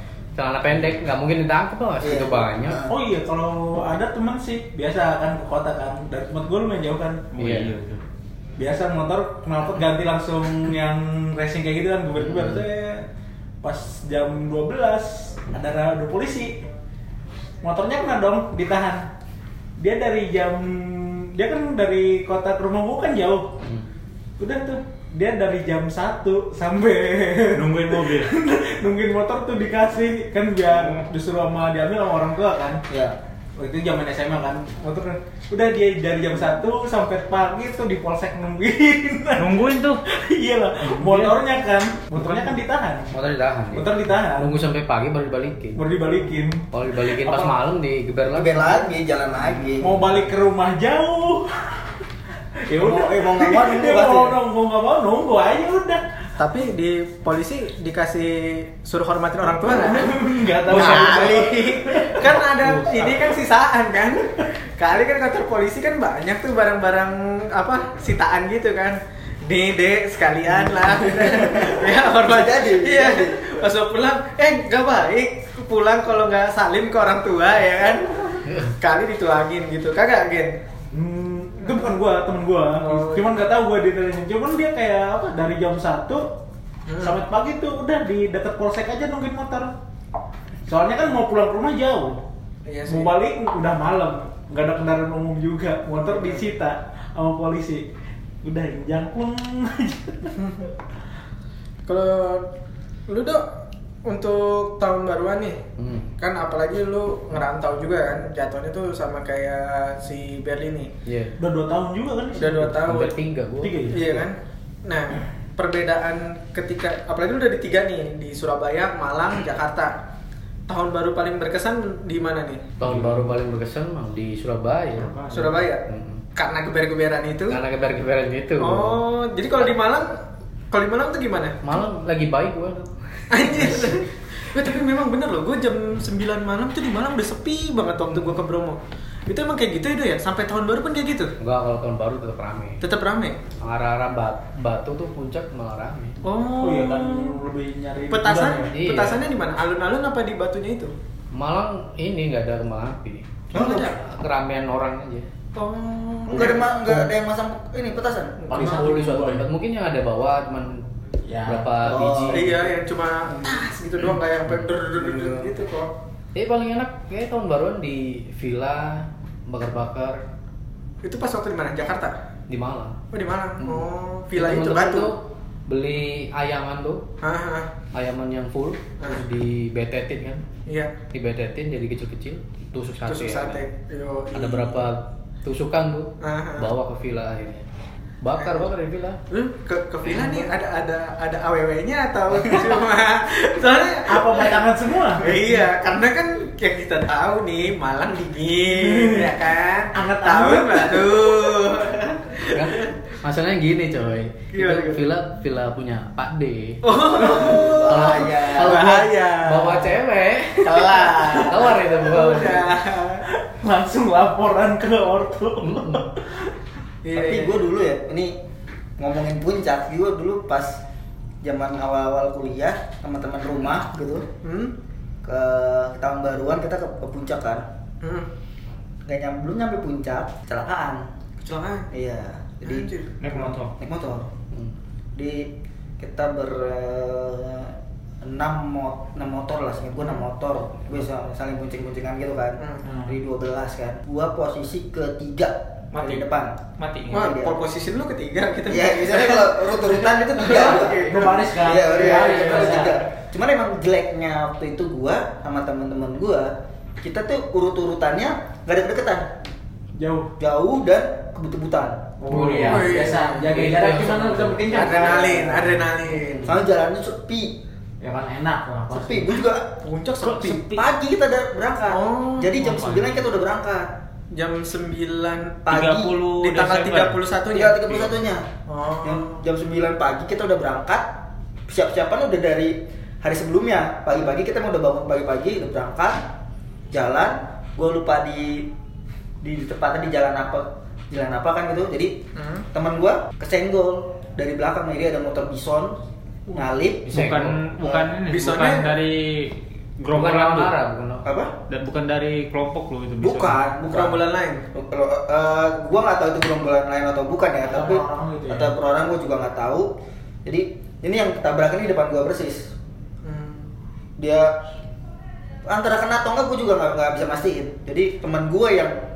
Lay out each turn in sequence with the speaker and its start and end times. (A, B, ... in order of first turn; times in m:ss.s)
0:00.4-0:02.8 A
0:02.0-0:03.0 B
0:02.8-0:07.3 C
0:07.3-0:08.0 D
0:07.4-0:07.7 A
0:08.6-0:13.0 C
0:12.2-0:12.6 A
0:13.6-0:16.6 C
0:17.6-0:19.0 C
0:19.8-0:23.6 C
0:24.4-0:32.8 C
0:27.5-0:28.3 D
0:30.7-0:31.0 D
0:32.9-0:33.2 B
0:33.6-0:43.1 C
0:39.4-0:40.0 D
0:40.8-0:41.4 D
0:43.1-0:45.8 A
0:43.7-0:44.5 C
0:45.7-0:47.6 C
0:46.7-0:48.9 A
0:48.3-0:50.0 B
0:49.8-0:52.0 C
0:52.7-0:56.0 C
0:52.8-0:54.4 B
0:56.4-1:20.6 E
0:59.7-1:03.2 C
1:00.7-1:01.6 B
1:11.1-1:13.5 B
1:20.9-1:26.3 C
1:22.8-1:23.4 E
1:26.9-1:27.2 E
1:26.9-1:29.7 C
1:30.7-1:32.2 C
1:32.6-1:33.1 E
1:32.9-1:37.9 C
1:36.0-1:36.5 E
1:38.4-1:40.4 C
1:40.4-1:40.7 E
1:41.9-1:42.5 E
1:43.1-1:43.4 E
1:44.0-1:45.6 E
1:45.8-1:46.1 A
1:46.2-1:50.9 E
1:51.0-1:51.3 A
1:51.4-1:53.0 C
1:52.3-1:53.1 E
1:52.7-1:54.2 A
1:53.6-1:54.1 C
1:53.9-1:59.9 E
2:00.7-2:02.7 E
2:02.8-2:05.2 A
2:02.8-2:03.3 D
2:05.0-2:05.6 D
2:05.3-2:07.6 E
2:05.9-2:06.2 A
2:07.5-2:09.0 A
2:08.6-2:10.2 E
2:10.7-2:11.6 E
2:11.6-2:13.9 A
2:13.3-2:21.3 E
2:21.4-2:22.8 A
2:22.8-2:23.4 E
2:23.6-2:26.2 A
2:26.2-2:27.4 E
2:26.5-2:28.7 C
2:28.1-2:30.9 E
2:28.7-2:29.2 A
2:31.3-2:35.3 A
2:33.5-2:34.0 E
2:33.5-2:33.9 B
2:35.5-2:36.6 E
2:36.3-2:38.7 B
2:38.5-2:39.5 C
2:38.5-2:38.7 E
2:38.5-2:40.8 A
2:41.2-2:41.9 C
2:41.4-2:42.6 A
2:41.8-2:42.5 B
2:42.3-2:45.9 E
2:46.3-2:50.2 A
2:51.0-2:52.1 E
2:52.5-2:53.0 A
2:53.1-2:55.1 E
2:54.3-2:57.0 A
2:57.2-2:57.7 E
2:57.9-3:00.4 A
3:00.7-3:00.9 E
3:01.1-3:03.6 A
3:03.1-3:04.8 E
3:04.3-3:07.6 A
3:06.2-3:06.7 E
3:08.2-3:09.2 A
3:08.4-3:08.7 E
3:09.3-3:14.6 E
3:10.1-3:10.4 A
3:14.1-3:15.6 C
3:15.1-3:22.9 E
3:18.7-3:19.3 C
3:19.9-3:21.6 C
3:22.5-3:32.7 A
3:24.5-3:25.0 E
3:26.8-3:30.0 E
3:27.2-3:28.9 B
3:30.6-3:33.2 E
3:33.3-3:36.5 C
3:35.6-3:36.1 A
3:37.0-3:37.6 E
3:37.1-3:38.4 B
3:39.0-3:40.8 B
3:41.4-3:44.2 B
3:44.4-3:44.8 E
3:45.2-3:47.6 B
3:48.0-3:48.3 E
3:49.0-3:51.1 B
3:51.4-3:51.9 E
3:51.9-3:54.3 B
3:52.6-3:53.2 E
3:53.2-3:53.7 D
3:55.1-4:06.6 B
4:02.6-4:02.8 E
4:02.8-4:03.2 C
4:05.9-4:07.3 D
4:07.1-4:12.9 E
4:07.1-4:07.5 B
4:08.7-4:19.3 B
4:10.4-4:13.0 C
4:19.9-4:20.3 C
4:20.4-4:22.2 B
4:22.2-4:25.4 C
4:22.3-4:24.7 A
4:22.6-4:23.5 E
4:24.6-4:26.6 E
4:24.7-4:25.7 B
4:26.4-4:27.6 B
4:28.0-4:29.4 C
4:28.9-4:29.7 B
4:29.8-4:30.6 E
4:30.2-4:30.9 D
4:30.3-4:33.9 B
4:31.9-4:32.6 E
4:32.6-4:33.3 D
4:34.3-4:35.6 E
4:35.6-4:36.1 B
4:35.7-4:37.2 D
4:36.3-4:38.1 E
4:37.5-4:38.4 B
4:38.6-4:39.4 E
4:39.0-4:41.1 B
4:41.7-4:46.2 B
4:46.9-4:48.7 B
4:49.4-4:52.2 B
4:52.4-4:52.6 E
4:52.7-4:56.0 B
4:56.5-4:58.0 B
4:57.0-4:57.6 A
4:57.1-5:00.7 D
4:58.2-4:58.9 E
5:00.1-5:01.2 A
5:01.2-5:01.5 B
5:01.7-5:03.6 D
5:03.2-5:09.9 B
5:03.9-5:04.6 E
5:07.6-5:08.7 C
5:10.4-5:12.7 B
5:13.2-5:13.7 E
5:14.2-5:14.6 B
5:15.6-5:19.0 B